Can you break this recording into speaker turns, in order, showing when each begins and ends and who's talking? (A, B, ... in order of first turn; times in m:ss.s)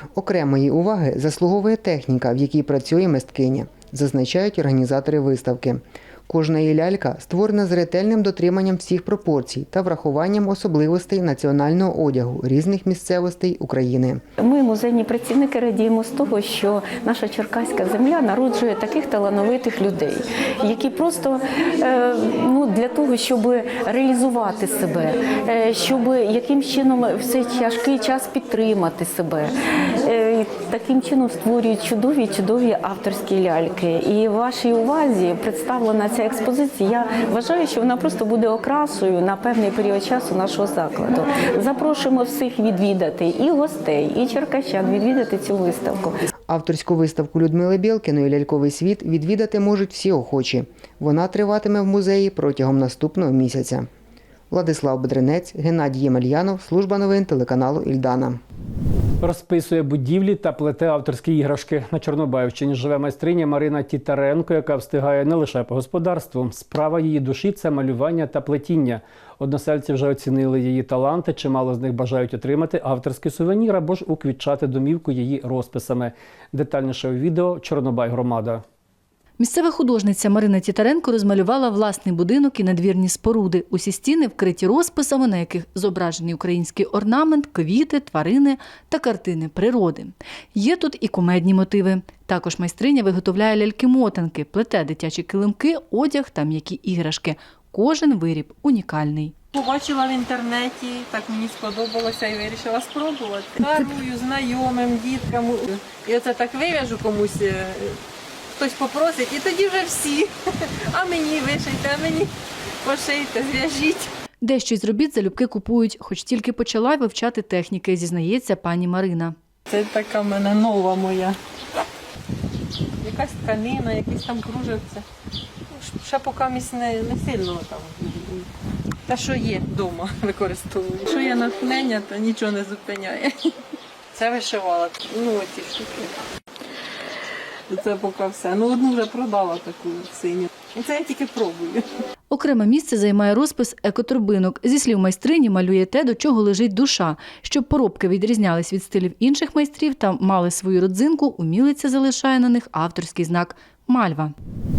0:00.1-0:14.2 A
0:14.4-0:46.2 B
0:46.5-0:53.9 A
0:54.5-0:58.4 A
0:59.2-1:18.6 C
1:19.4-1:39.3 D
1:39.5-1:48.0 E
1:48.5-1:52.3 E
1:52.8-1:54.1 E
1:54.4-1:59.4 D
1:59.7-2:01.4 E
2:03.0-2:05.0 E
2:05.7-2:08.5 E
2:09.1-2:13.5 E
2:14.1-2:16.1 E
2:17.7-2:21.8 E
2:22.3-2:34.3 D